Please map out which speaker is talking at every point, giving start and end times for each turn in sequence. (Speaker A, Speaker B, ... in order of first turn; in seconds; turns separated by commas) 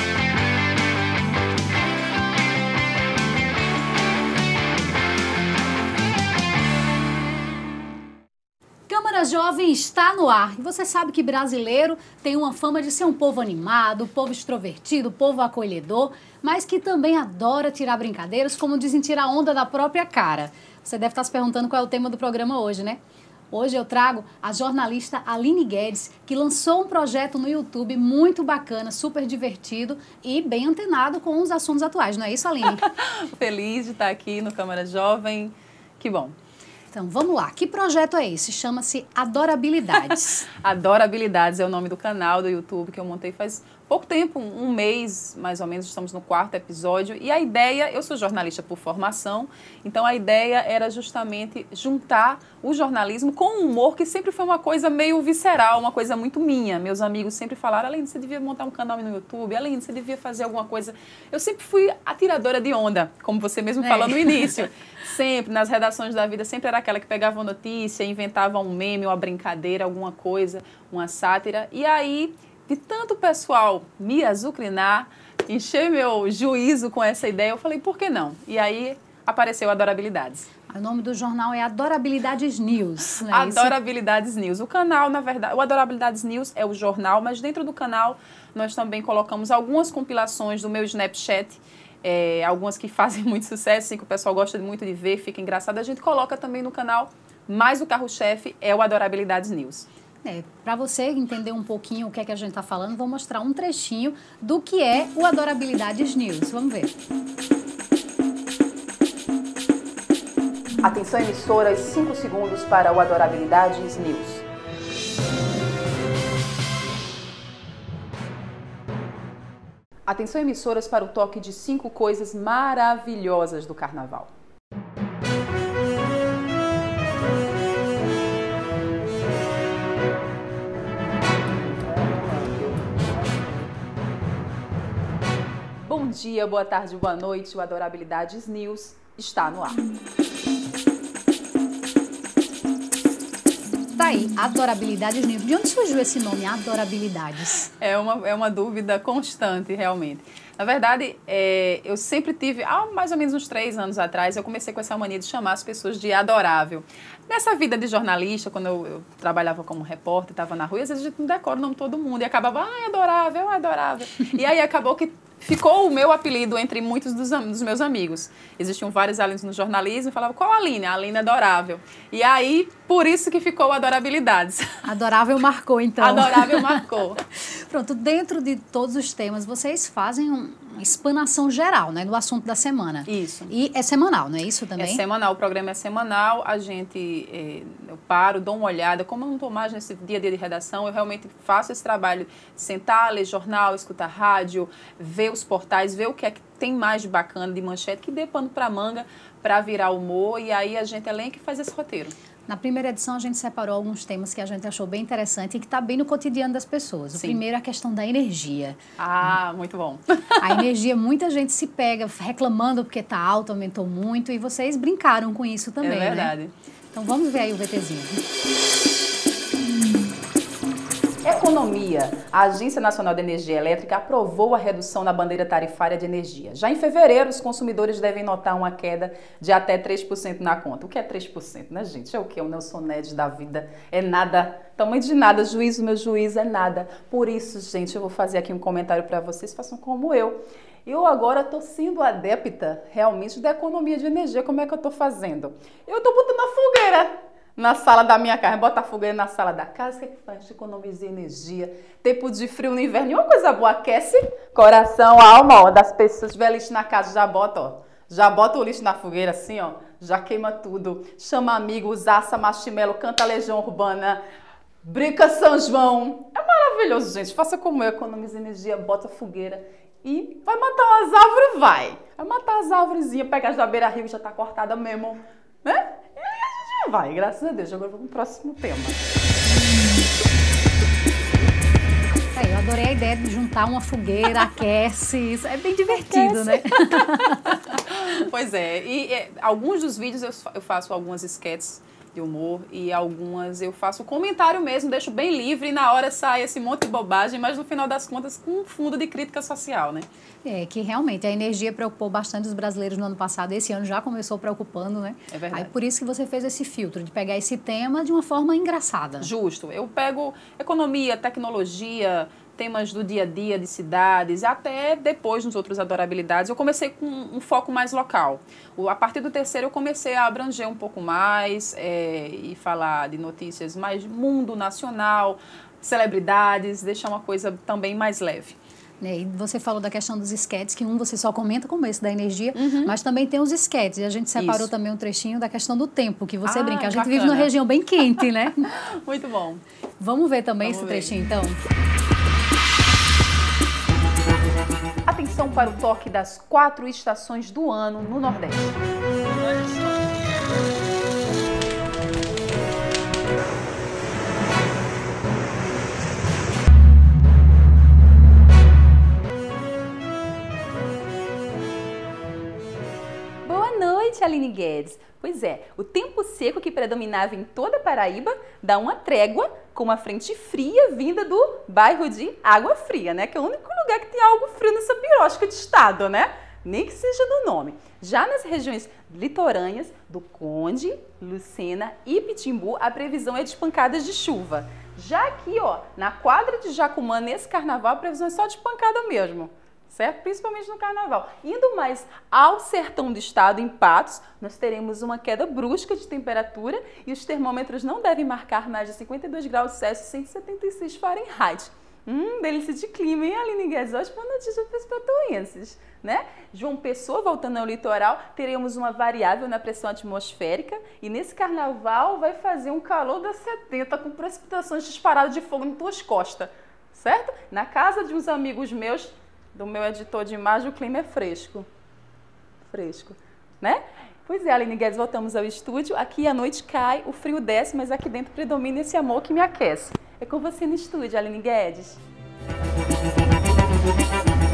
Speaker A: 8.9-23.0, Speaker A: 23.5-32.8, Speaker B: 32.7-36.3, Speaker A: 36.9-40.5, Speaker B: 40.5-80.5, Speaker A: 63.8-64.5, Speaker A: 80.7-83.7, Speaker B: 83.3-99.9, Speaker A: 100.2-106.9, Speaker B: 110.8-114.5, Speaker B: 120.1-124.3, Speaker B: 131.9-133.1, Speaker B: 135.8-139.8, Speaker A: 144.0-147.7, Speaker B: 147.8-174.8, Speaker A: 174.8-176.8, Speaker B: 176.0-177.2, Speaker A: 177.4-185.0, Speaker B: 183.1-183.5, Speaker B: 184.8-202.1, Speaker A: 202.5-208.8, Speaker B: 207.2-207.4, Speaker B: 209.0-210.6, Speaker A: 210.4-216.3, Speaker B: 215.8-216.5, Speaker A: 216.9-218.2, Speaker B: 221.2-264.2, Speaker B: 264.8-279.0, Speaker A: 282.4-287.6, Speaker B: 285.9-300.1, Speaker A: 300.4-309.3, Speaker B: 305.3-305.7, Speaker B: 309.2-328.6, Speaker A: 329.0-338.7, Speaker B: 332.6-332.9, Speaker B: 334.4-334.7, Speaker B: 336.4-337.5, Speaker B: 338.1-339.6, Speaker A: 340.0-341.6, Speaker B: 340.6-341.3, Speaker B: 345.1-348.8, Speaker B: 363.4-421.7, Speaker B: 422.7-432.0